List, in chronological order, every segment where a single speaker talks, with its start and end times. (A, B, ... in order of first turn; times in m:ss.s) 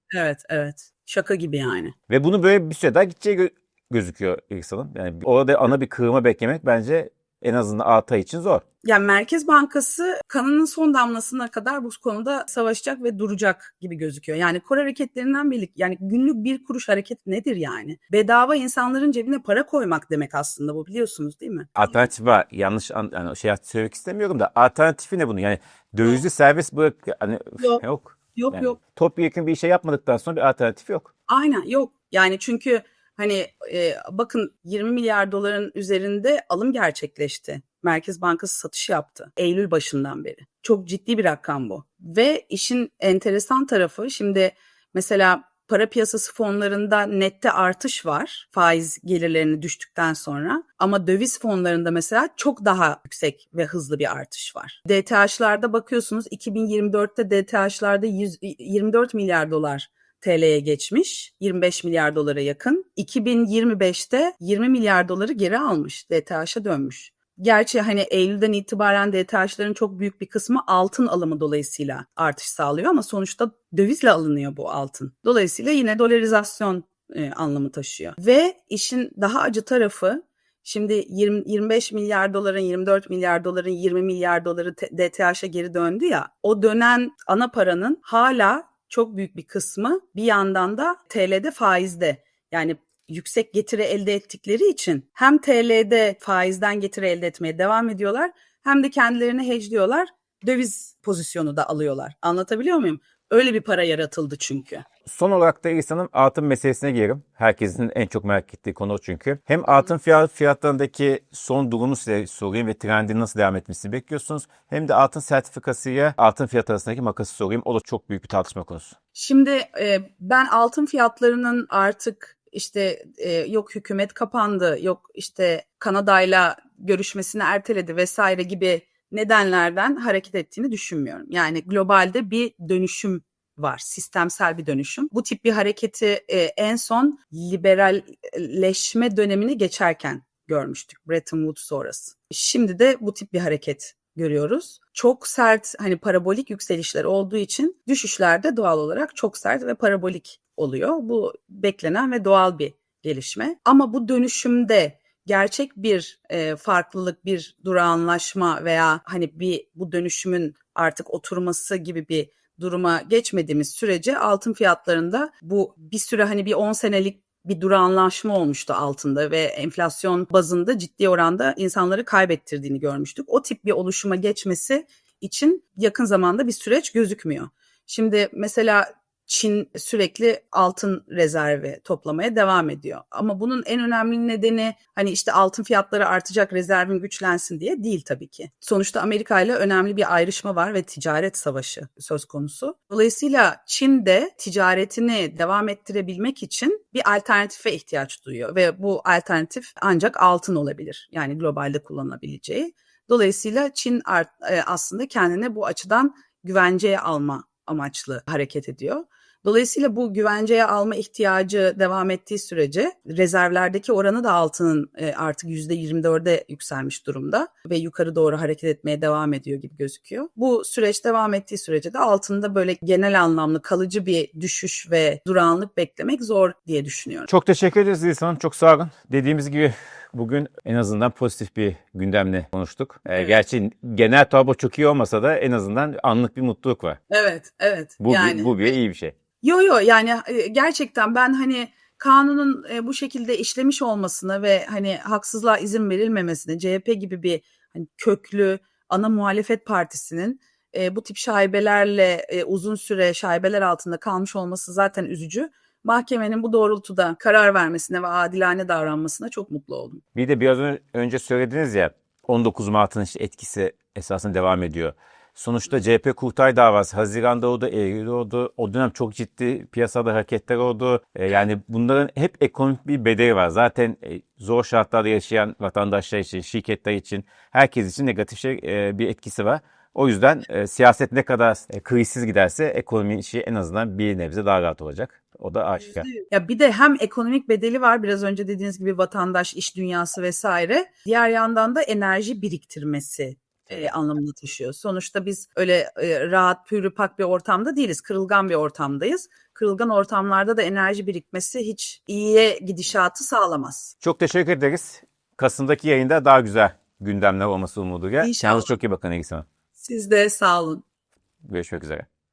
0:00.1-0:01.9 A
0:02.1-0:08.6 B
0:08.8-0:21.8 A
0:21.8-0:31.1 B
0:28.3-0:28.8 A
0:31.3-1:44.8 A
1:45.0-1:58.9 B
1:59.1-3:47.3 A
3:47.3-3:57.0 B
3:57.1-3:58.7 A
3:58.0-3:59.1 B
3:59.4-4:20.0 A
4:20.1-4:46.1 B
4:46.0-5:03.9 A
5:04.0-5:09.4 B
5:08.2-5:08.7 A
5:09.8-5:10.8 A
5:11.4-5:12.0 B